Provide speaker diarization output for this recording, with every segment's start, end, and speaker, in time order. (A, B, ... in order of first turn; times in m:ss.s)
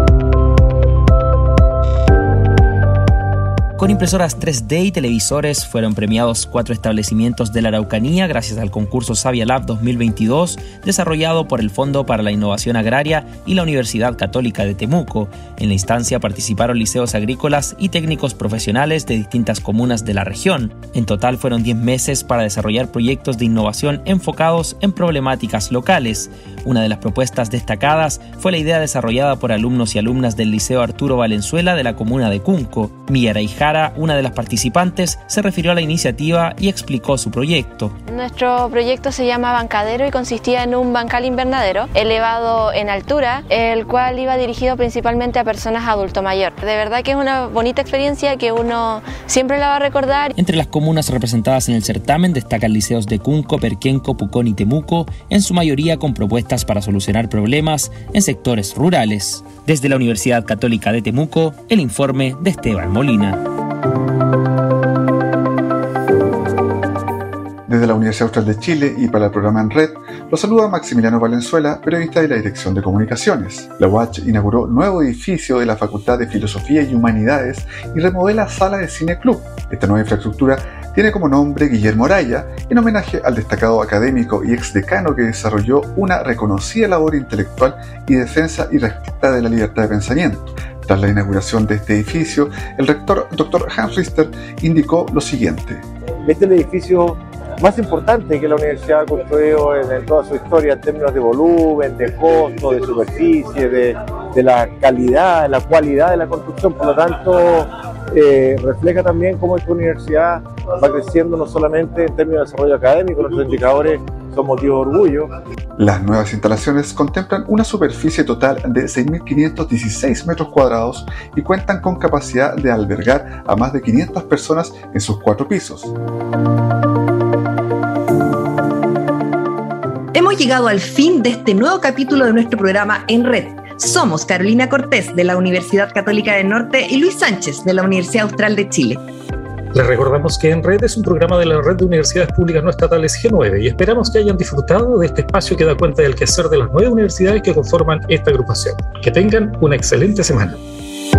0:03.8-0:37.9 A
0:38.1-0:50.3 B
0:50.4-1:03.4 A
1:07.7-1:35.8 C
1:36.2-1:55.3 D
1:55.8-2:05.9 C
2:10.1-2:19.0 E
2:19.7-2:30.6 F